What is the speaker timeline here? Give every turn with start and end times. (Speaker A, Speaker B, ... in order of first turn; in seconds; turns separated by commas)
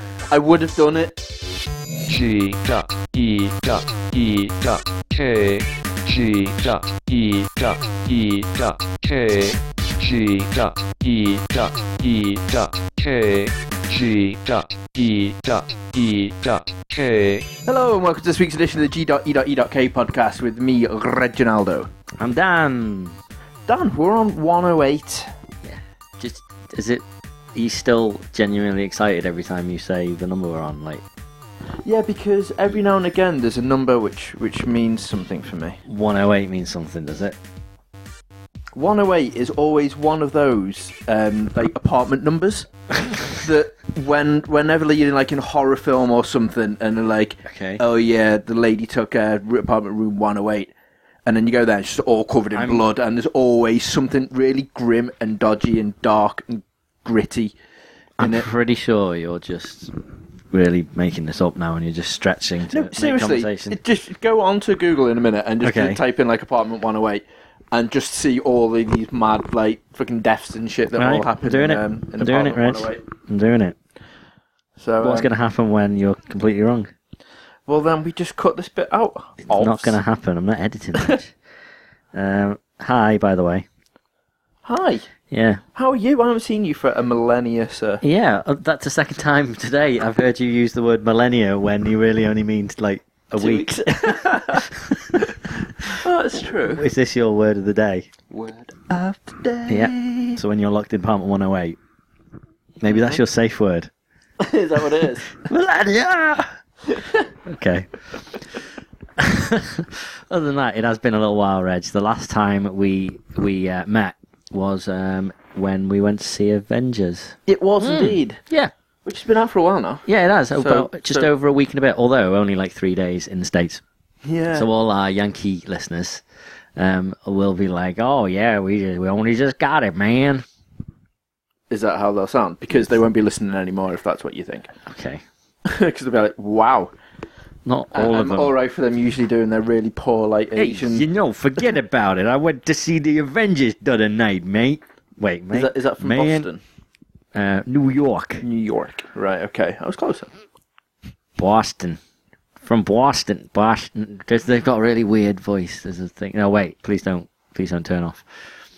Speaker A: 0.3-1.2, Speaker B: 2.1-17.5, Speaker A: 17.7-21.9, Speaker C: 22.2-23.2, Speaker A: 23.7-25.3, Speaker C: 25.6-27.0, Speaker C: 27.6-31.0, Speaker A: 31.9-35.8, Speaker C: 35.9-37.4, Speaker A: 38.8-42.7, Speaker A: 43.3-50.7, Speaker C: 47.5-47.8, Speaker A: 51.3-57.5, Speaker C: 52.5-52.8, Speaker A: 58.2-58.5, Speaker C: 58.2-59.9, Speaker C: 60.5-63.8, Speaker A: 62.7-73.0, Speaker C: 65.6-66.0, Speaker C: 71.0-73.8, Speaker A: 74.8-75.3, Speaker C: 75.0-76.9, Speaker A: 77.7-80.0, Speaker C: 79.5-81.3, Speaker C: 82.1-83.7, Speaker A: 84.7-85.1, Speaker C: 85.3-85.6, Speaker A: 85.8-88.0, Speaker C: 88.0-95.2, Speaker A: 93.4-96.8, Speaker C: 96.8-98.1, Speaker A: 98.3-100.4, Speaker C: 99.7-101.8, Speaker C: 102.8-103.9, Speaker A: 102.9-103.2, Speaker A: 104.4-105.4, Speaker C: 105.4-106.5, Speaker A: 106.9-107.3, Speaker C: 107.5-107.9, Speaker C: 109.2-118.7, Speaker A: 117.5-118.4, Speaker A: 119.0-121.3, Speaker C: 120.1-123.8, Speaker A: 124.2-124.7, Speaker C: 124.5-126.2, Speaker C: 126.8-130.4, Speaker A: 131.7-134.7, Speaker C: 134.9-135.2, Speaker A: 135.7-136.9, Speaker C: 137.7-138.5, Speaker A: 137.9-141.1, Speaker C: 140.6-146.5, Speaker A: 145.5-146.6, Speaker C: 147.3-148.4, Speaker A: 148.4-150.3, Speaker C: 151.4-152.0, Speaker C: 152.6-158.2